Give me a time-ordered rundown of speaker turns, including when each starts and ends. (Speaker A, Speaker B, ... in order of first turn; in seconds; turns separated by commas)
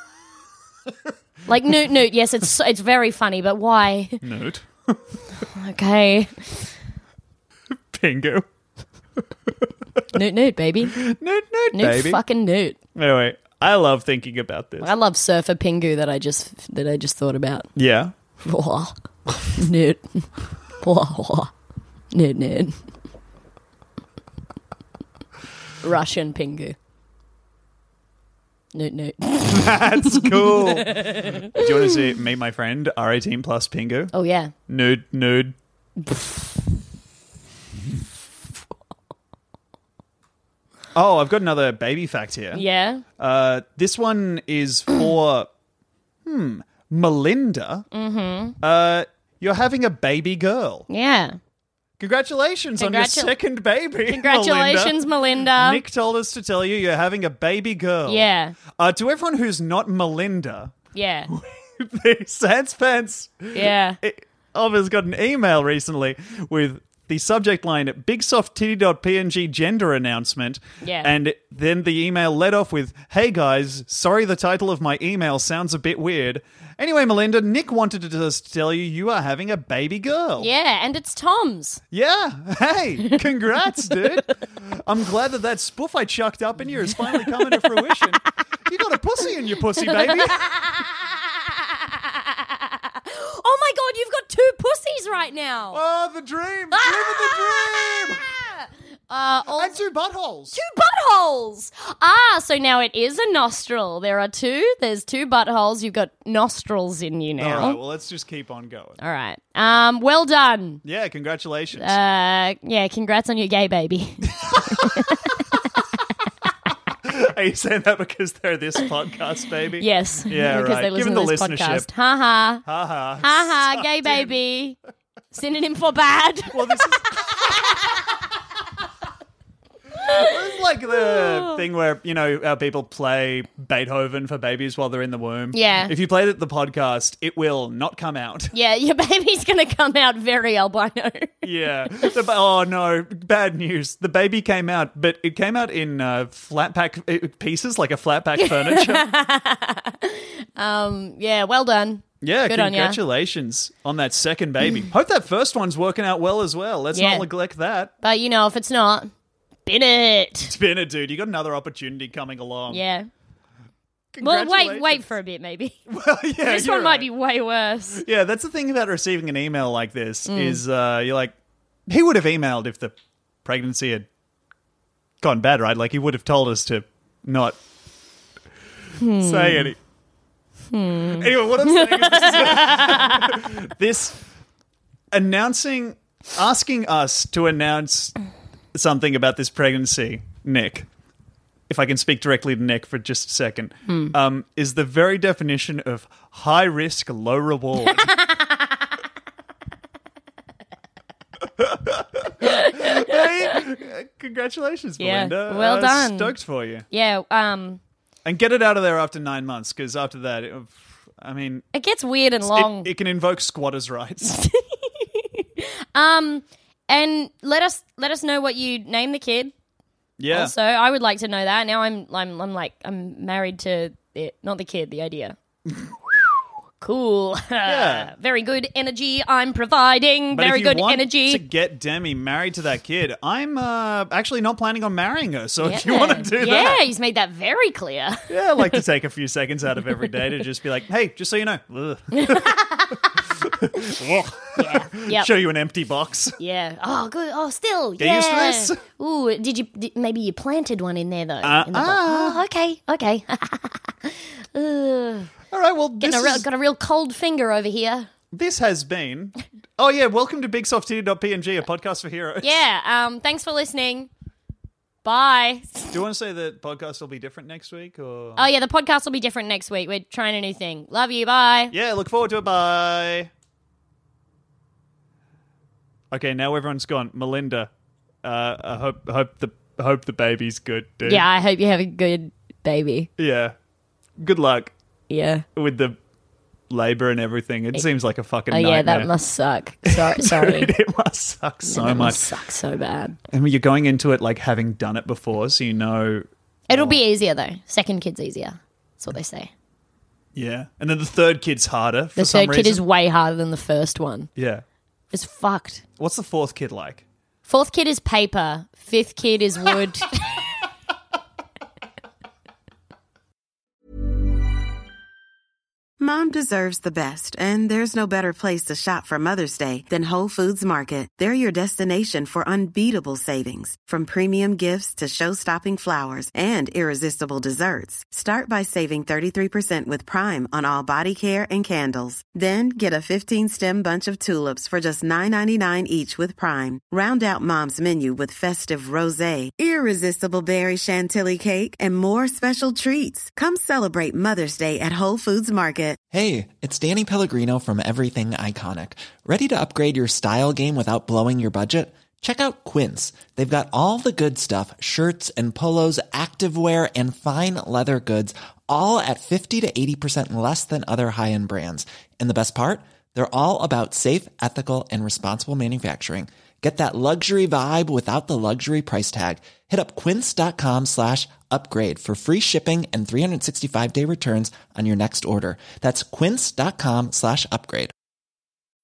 Speaker A: 1.4-4.2, Speaker B: 4.2-5.2, Speaker A: 5.4-6.7, Speaker B: 7.9-8.4, Speaker A: 10.1-11.0, Speaker B: 10.9-12.2, Speaker A: 11.7-12.8, Speaker B: 12.9-14.9, Speaker A: 14.8-17.7, Speaker B: 17.8-18.1, Speaker A: 18.4-18.9, Speaker A: 19.5-20.3, Speaker A: 20.8-21.5, Speaker A: 22.1-22.8, Speaker A: 25.8-26.8, Speaker A: 28.7-31.6, Speaker B: 29.5-34.1, Speaker A: 34.1-34.5, Speaker B: 34.7-35.5, Speaker A: 36.0-36.3, Speaker B: 41.0-42.6, Speaker A: 42.5-43.0, Speaker B: 43.2-45.5, Speaker B: 46.3-47.9, Speaker A: 47.9-48.6, Speaker B: 48.6-50.9, Speaker A: 50.9-51.4, Speaker B: 52.0-60.7, Speaker A: 52.8-53.3, Speaker A: 54.1-55.8, Speaker A: 58.1-58.6, Speaker A: 60.9-61.3, Speaker B: 61.3-80.5, Speaker A: 63.5-64.0, Speaker A: 70.8-71.1, Speaker A: 80.4-81.8, Speaker B: 81.9-90.5, Speaker A: 87.0-88.0, Speaker A: 89.8-95.8, Speaker B: 95.7-98.2, Speaker A: 96.7-99.8, Speaker B: 99.5-100.6, Speaker A: 100.5-107.8, Speaker B: 107.4-109.0, Speaker A: 109.0-110.8, Speaker B: 110.8-112.0, Speaker A: 111.8-115.5, Speaker B: 114.3-115.3, Speaker B: 117.0-121.9, Speaker A: 119.8-122.6, Speaker B: 122.6-124.3, Speaker A: 123.2-124.8, Speaker A: 125.3-127.9, Speaker B: 126.5-127.8, Speaker A: 130.0-130.3, Speaker B: 130.0-138.5, Speaker A: 130.9-131.6, Speaker A: 135.5-135.9, Speaker A: 138.5-141.3, Speaker B: 141.4-149.1, Speaker A: 148.4-153.0, Speaker B: 152.2-157.9, Speaker A: 156.9-157.3, Speaker A: 158.0-159.1, Speaker A: 159.7-160.5, Speaker B: 160.5-162.8, Speaker A: 162.7-163.1, Speaker B: 164.1-165.1, Speaker A: 164.2-165.8, Speaker B: 165.9-167.1, Speaker A: 166.4-168.0, Speaker B: 167.9-171.3, Speaker A: 170.3-170.6, Speaker B: 171.9-172.9, Speaker B: 173.4-174.1, Speaker B: 175.2-177.6, Speaker A: 179.0-179.7, Speaker B: 179.2-179.8, Speaker A: 180.7-183.3, Speaker B: 181.1-184.2, Speaker B: 185.1-188.2, Speaker B: 188.7-190.9, Speaker B: 191.7-198.2, Speaker A: 193.9-194.1, Speaker A: 198.1-198.5, Speaker B: 201.6-206.9, Speaker A: 202.4-203.6, Speaker A: 205.0-206.3, Speaker A: 206.9-207.8, Speaker B: 208.2-211.7, Speaker A: 211.7-212.9, Speaker B: 212.4-214.4, Speaker A: 214.3-219.5, Speaker B: 220.2-220.5, Speaker A: 220.3-225.4, Speaker A: 226.8-231.4, Speaker B: 227.6-228.1, Speaker B: 230.3-236.8, Speaker A: 235.6-238.3, Speaker B: 238.3-242.6, Speaker A: 242.1-243.2, Speaker B: 243.4-246.4, Speaker A: 244.6-245.3, Speaker A: 246.4-255.3, Speaker B: 248.0-248.8, Speaker B: 251.4-252.4, Speaker B: 255.5-256.4, Speaker A: 256.0-258.1, Speaker B: 258.3-262.6, Speaker A: 262.4-264.1, Speaker A: 265.0-265.9, Speaker B: 265.9-268.4, Speaker A: 268.4-271.7, Speaker B: 271.7-273.3, Speaker B: 276.1-277.7, Speaker B: 278.2-281.3, Speaker A: 281.1-283.1, Speaker B: 283.2-283.6, Speaker B: 284.2-284.7, Speaker A: 285.1-285.4, Speaker B: 285.6-285.9, Speaker B: 286.7-289.1, Speaker A: 288.5-290.7, Speaker B: 289.9-292.2, Speaker A: 291.7-293.2, Speaker B: 293.3-297.0, Speaker A: 296.7-299.5, Speaker B: 300.4-302.8, Speaker A: 302.2-304.3, Speaker B: 304.4-304.6, Speaker A: 305.1-305.8, Speaker B: 306.0-307.0, Speaker A: 307.5-310.3, Speaker C: 316.0-346.0, Speaker D: 346.1-377.9